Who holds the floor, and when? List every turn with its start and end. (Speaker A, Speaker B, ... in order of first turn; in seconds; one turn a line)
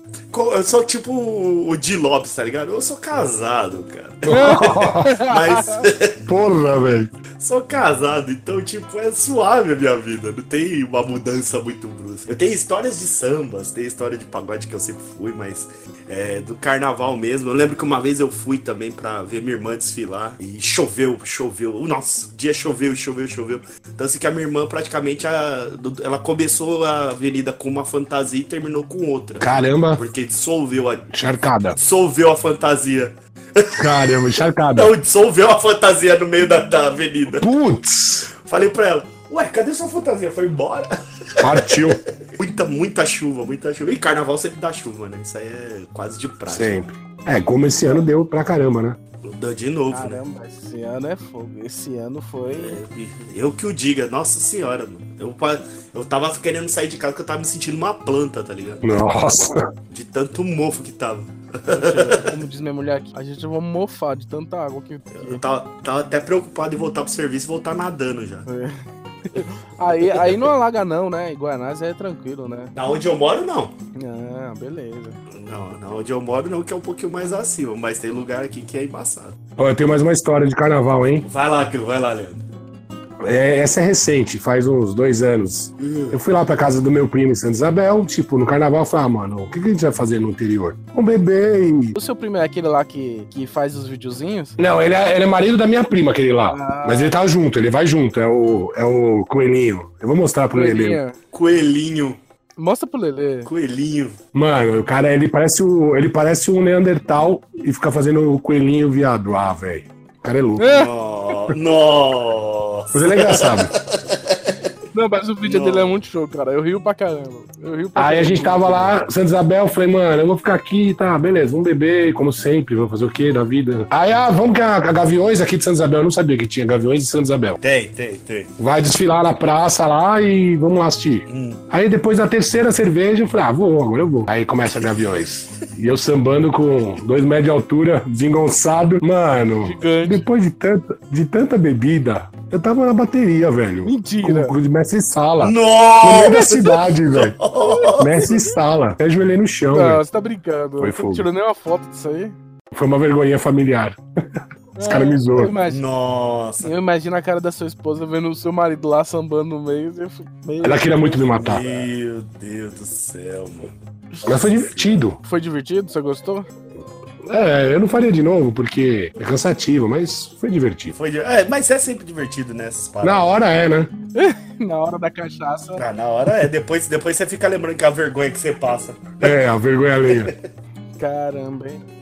Speaker A: 0.3-6.2
Speaker B: 4.3-5.2
Speaker C: 4.3-5.8
Speaker B: 6.3-7.1
Speaker A: 7.4-31.1
Speaker B: 29.4-30.0
Speaker B: 31.1-31.8
Speaker A: 31.8-34.2
Speaker B: 33.8-34.9
Speaker A: 34.7-37.5
Speaker B: 37.3-38.3
Speaker A: 38.5-46.8
Speaker B: 41.4-42.0
Speaker B: 46.5-49.0
Speaker A: 47.8-48.1
Speaker A: 49.2-50.2
Speaker C: 49.9-52.8
Speaker A: 52.5-58.9
Speaker B: 58.8-59.7
Speaker A: 59.9-62.3
Speaker C: 61.7-65.4
Speaker A: 65.1-68.5
Speaker C: 68.5-72.7
Speaker A: 70.0-70.5
Speaker A: 72.8-73.8
Speaker C: 74.0-75.2
Speaker A: 75.3-79.3
Speaker B: 79.6-81.2
Speaker A: 81.2-82.5
Speaker B: 83.2-92.0
Speaker A: 85.8-86.2
Speaker C: 92.0-94.6
Speaker B: 94.6-101.0
Speaker C: 96.5-97.2
Speaker C: 100.5-101.2
Speaker A: 101.3-102.2
Speaker C: 102.6-103.5
Speaker A: 103.5-104.2
Speaker B: 104.3-110.7
Speaker C: 110.6-110.9
Speaker A: 110.7-114.6
Speaker B: 112.9-113.7
Speaker C: 114.9-119.0
Speaker A: 115.4-116.0
Speaker B: 118.0-127.6
Speaker A: 127.6-128.5
Speaker B: 128.6-147.4
Speaker A: 131.3-131.6
Speaker A: 134.7-135.7
Speaker C: 139.6-140.3
Speaker C: 143.8-144.6
Speaker A: 145.4-148.3
Speaker C: 147.6-148.6
Speaker B: 148.0-150.0
Speaker C: 149.7-152.3
Speaker B: 150.8-151.3
Speaker B: 152.7-155.5
Speaker C: 154.8-155.8
Speaker A: 155.7-156.7
Speaker C: 156.6-161.3
Speaker B: 160.6-161.9
Speaker A: 161.3-165.2
Speaker B: 164.2-165.2
Speaker C: 165.2-166.5
Speaker B: 167.2-170.9
Speaker A: 170.9-173.4
Speaker B: 173.0-173.9
Speaker C: 174.2-175.8
Speaker A: 175.8-179.4
Speaker B: 179.2-180.3
Speaker A: 180.1-180.5
Speaker C: 181.0-181.8